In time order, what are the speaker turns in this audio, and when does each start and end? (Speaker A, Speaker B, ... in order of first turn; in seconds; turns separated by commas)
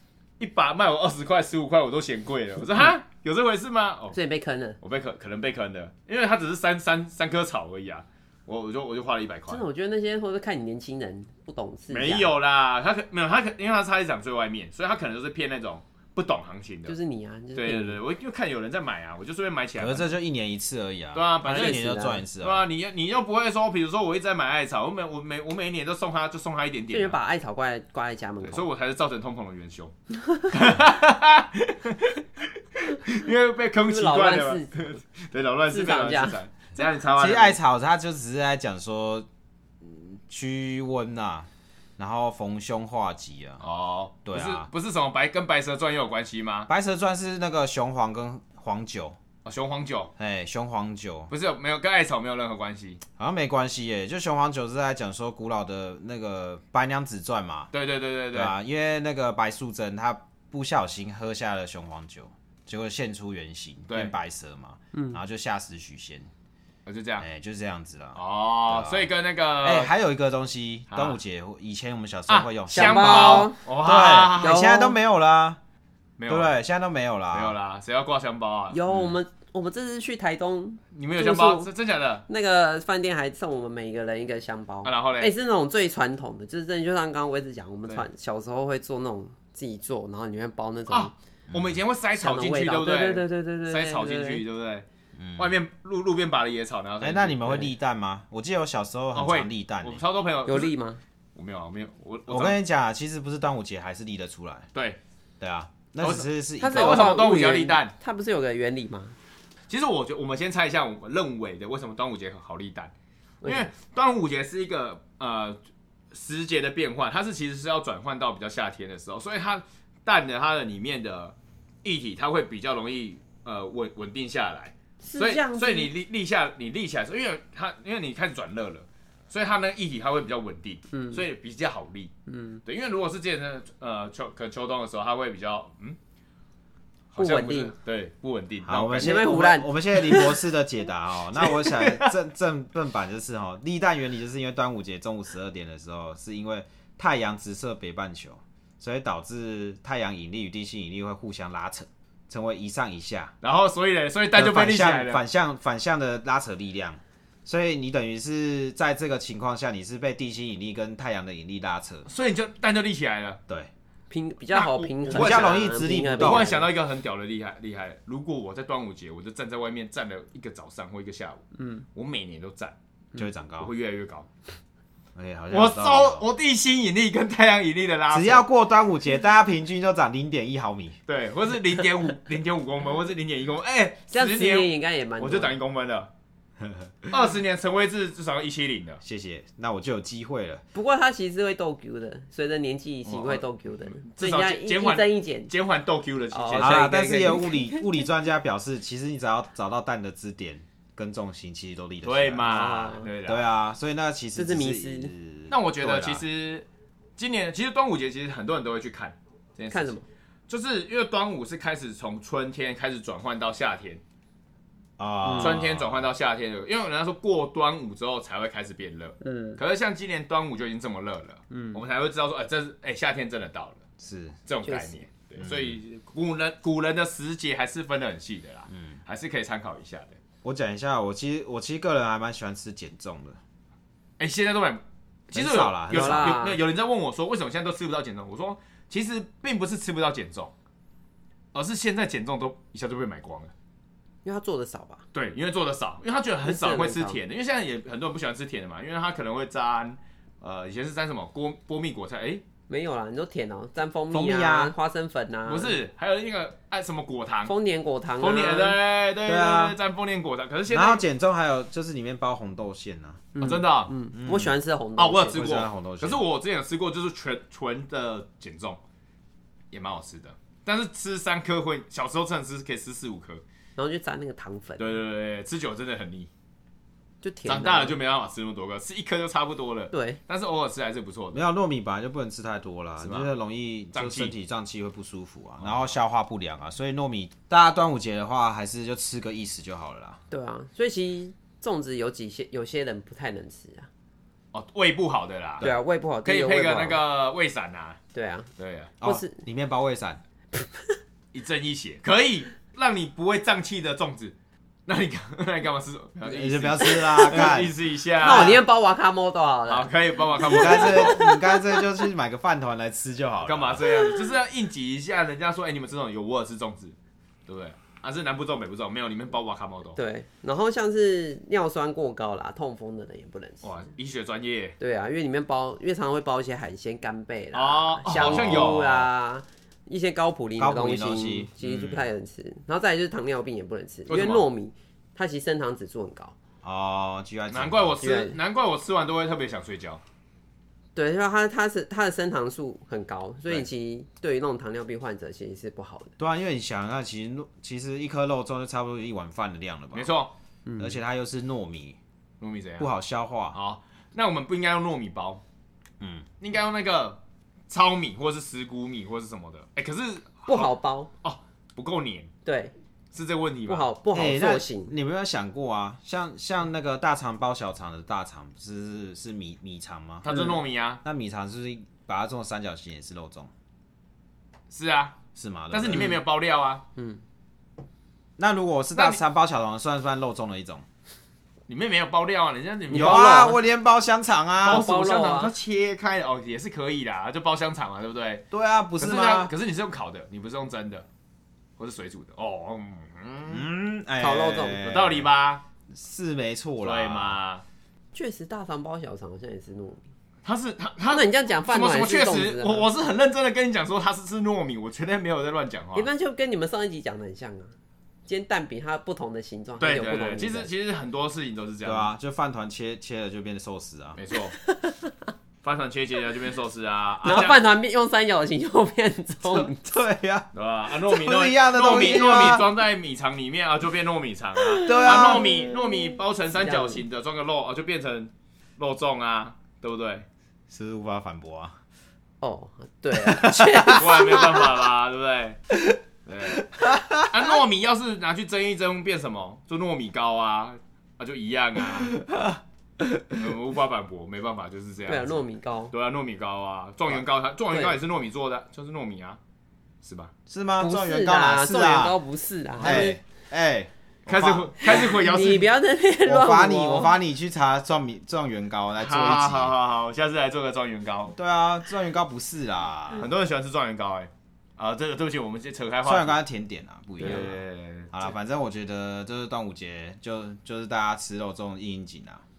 Speaker A: 0.4-4.2, Speaker B: 4.1-4.8, Speaker A: 4.8-9.6, Speaker B: 9.5-12.3, Speaker A: 11.9-17.0, Speaker B: 16.9-18.0, Speaker A: 17.5-20.1, Speaker C: 19.8-22.6, Speaker A: 21.1-27.2, Speaker B: 21.4-22.2, Speaker B: 26.9-28.7, Speaker A: 28.4-29.9, Speaker A: 30.5-37.6, Speaker B: 33.8-35.0, Speaker B: 35.7-36.4, Speaker C: 37.1-39.3, Speaker C: 39.8-43.6, Speaker A: 43.6-46.7, Speaker C: 44.2-44.7, Speaker C: 46.7-49.1, Speaker A: 49.4-50.1, Speaker C: 50.2-51.3, Speaker A: 51.3-53.0, Speaker C: 53.2-57.7, Speaker A: 57.7-58.5, Speaker C: 58.3-66.3, Speaker B: 64.9-65.2, Speaker A: 66.8-67.2, Speaker C: 67.2-69.1, Speaker A: 68.2-69.9, Speaker C: 69.6-75.6, Speaker A: 70.9-71.2, Speaker A: 72.3-74.6, Speaker B: 72.7-73.6, Speaker B: 74.3-75.0, Speaker A: 76.2-76.5, Speaker C: 76.3-77.6, Speaker A: 77.3-79.1, Speaker B: 78.7-81.7, Speaker A: 80.9-82.2, Speaker B: 82.3-91.1, Speaker A: 84.8-85.3, Speaker A: 90.9-94.8, Speaker B: 92.2-94.4, Speaker C: 95.2-95.6, Speaker A: 95.4-97.6, Speaker C: 97.0-100.0, Speaker A: 99.1-100.7, Speaker B: 100.5-101.0, Speaker A: 101.3-102.6, Speaker C: 102.3-104.7, Speaker C: 105.4-107.1, Speaker A: 106.0-107.9, Speaker B: 106.6-109.1, Speaker A: 109.7-112.9, Speaker B: 113.4-113.7, Speaker A: 113.4-115.6, Speaker A: 116.1-132.1, Speaker B: 125.0-125.9, Speaker B: 130.9-131.2, Speaker B: 132.3-132.6, Speaker A: 132.6-136.0, Speaker A: 137.1-139.4, Speaker B: 137.2-137.7, Speaker C: 138.7-153.3, Speaker B: 139.0-140.4, Speaker A: 141.4-142.1, Speaker A: 153.4-155.2, Speaker C: 154.3-162.1, Speaker A: 162.1-163.4, Speaker B: 164.1-166.7, Speaker A: 164.5-165.6, Speaker C: 165.1-166.5, Speaker A: 166.2-172.8, Speaker B: 171.6-171.8, Speaker C: 173.1-173.7, Speaker A: 173.6-174.3, Speaker C: 175.1-176.2, Speaker A: 175.5-178.4, Speaker C: 178.1-181.0, Speaker A: 181.1-186.1, Speaker B: 184.1-185.6, Speaker A: 187.1-189.0, Speaker C: 189.0-190.6, Speaker B: 190.7-195.5, Speaker A: 193.1-197.5, Speaker B: 196.3-198.0, Speaker C: 196.6-206.2, Speaker A: 202.0-203.4, Speaker B: 202.4-203.1, Speaker B: 204.3-205.1, Speaker A: 205.5-206.7, Speaker A: 207.2-210.0, Speaker B: 209.7-210.0, Speaker A: 210.5-214.0, Speaker C: 215.0-216.1, Speaker B: 215.2-215.6, Speaker A: 215.4-223.8, Speaker B: 219.2-219.6, Speaker B: 221.5-221.8, Speaker C: 224.0-224.4, Speaker A: 224.4-230.2, Speaker B: 224.6-225.0, Speaker C: 225.4-225.8, Speaker C: 228.7-229.0, Speaker C: 230.4-233.4, Speaker A: 234.2-240.5, Speaker C: 235.3-236.4, Speaker B: 235.9-236.6, Speaker A: 241.5-243.5, Speaker B: 244.2-245.0, Speaker A: 245.1-252.4, Speaker B: 246.4-247.2, Speaker B: 252.7-255.8, Speaker C: 254.1-254.7, Speaker A: 255.4-257.5, Speaker B: 257.4-258.8, Speaker A: 258.2-261.0, Speaker C: 259.2-259.8, Speaker C: 260.7-263.2, Speaker B: 263.3-265.5, Speaker A: 263.4-263.9, Speaker C: 264.1-264.5, Speaker A: 265.0-268.8, Speaker C: 265.3-266.2, Speaker A: 269.7-273.4, Speaker B: 273.8-275.0, Speaker A: 274.8-276.3, Speaker B: 277.2-278.0, Speaker A: 277.4-281.4, Speaker B: 279.9-280.2, Speaker C: 281.3-290.2, Speaker A: 283.0-283.3, Speaker A: 283.9-284.3, Speaker B: 290.3-293.9, Speaker A: 294.5-298.0, Speaker B: 295.6-297.0, Speaker B: 298.1-298.5, Speaker A: 298.6-298.9, Speaker B: 299.0-299.4, Speaker C: 299.0-300.2, Speaker B: 300.5-301.0, Speaker A: 301.3-308.6, Speaker C: 306.2-308.6, Speaker B: 307.2-307.5, Speaker B: 308.2-311.7, Speaker A: 309.7-311.3, Speaker C: 310.5-313.9, Speaker A: 313.4-316.9, Speaker A: 317.5-320.0, Speaker B: 319.9-323.8, Speaker A: 323.6-324.8, Speaker B: 324.8-336.4, Speaker A: 327.5-329.1, Speaker C: 328.1-329.0, Speaker C: 330.6-332.0, Speaker A: 334.1-334.4, Speaker C: 336.6-338.0, Speaker A: 337.5-340.0, Speaker B: 338.0-338.4, Speaker B: 340.9-346.1, Speaker C: 346.2-350.1, Speaker A: 349.9-350.3, Speaker B: 350.6-351.0, Speaker C: 350.8-352.0, Speaker A: 352.4-352.9, Speaker C: 352.8-353.6, Speaker A: 353.5-355.4, Speaker C: 356.0-356.3, Speaker A: 356.4-362.3, Speaker B: 360.5-361.1, Speaker B: 362.4-362.7, Speaker A: 363.1-363.9, Speaker B: 363.7-364.9, Speaker C: 364.1-370.4, Speaker A: 370.2-371.0, Speaker C: 371.0-373.5, Speaker A: 374.7-375.2, Speaker C: 375.3-376.2, Speaker A: 375.7-376.8, Speaker B: 376.9-377.2, Speaker C: 378.4-380.8, Speaker A: 378.9-379.2, Speaker A: 381.7-383.6, Speaker B: 382.9-383.6, Speaker C: 382.9-384.9, Speaker B: 384.6-385.5, Speaker A: 384.6-388.4, Speaker C: 388.5-389.5, Speaker A: 389.0-391.1, Speaker A: 391.8-393.7, Speaker C: 393.5-395.3, Speaker B: 394.2-394.9, Speaker A: 394.8-395.6, Speaker C: 395.9-397.4, Speaker A: 396.8-397.6, Speaker B: 398.1-400.0, Speaker A: 400.4-406.1, Speaker B: 401.1-402.9, Speaker B: 405.9-407.7, Speaker B: 408.2-410.7, Speaker A: 409.8-412.1, Speaker C: 411.8-414.2, Speaker A: 414.1-414.6, Speaker B: 414.6-415.1, Speaker A: 415.6-417.6, Speaker B: 417.2-419.8, Speaker C: 419.5-420.5, Speaker A: 420.5-430.2, Speaker C: 421.1-422.7, Speaker B: 424.6-427.0, Speaker C: 424.8-425.7, Speaker C: 430.7-431.7, Speaker B: 432.4-434.6, Speaker C: 433.2-434.7, Speaker A: 433.9-435.6, Speaker A: 436.2-442.2, Speaker C: 436.5-437.3, Speaker C: 442.1-443.4, Speaker A: 443.4-449.4, Speaker B: 445.1-445.9, Speaker A: 450.0-450.3, Speaker C: 450.5-452.1, Speaker B: 450.8-453.2, Speaker C: 452.8-454.9, Speaker A: 452.8-453.1, Speaker A: 454.2-455.7, Speaker B: 454.8-457.1, Speaker C: 456.2-459.7, Speaker A: 458.9-461.3, Speaker C: 461.4-463.3, Speaker A: 463.2-466.4, Speaker C: 466.0-467.6, Speaker A: 467.2-468.3, Speaker C: 468.1-472.4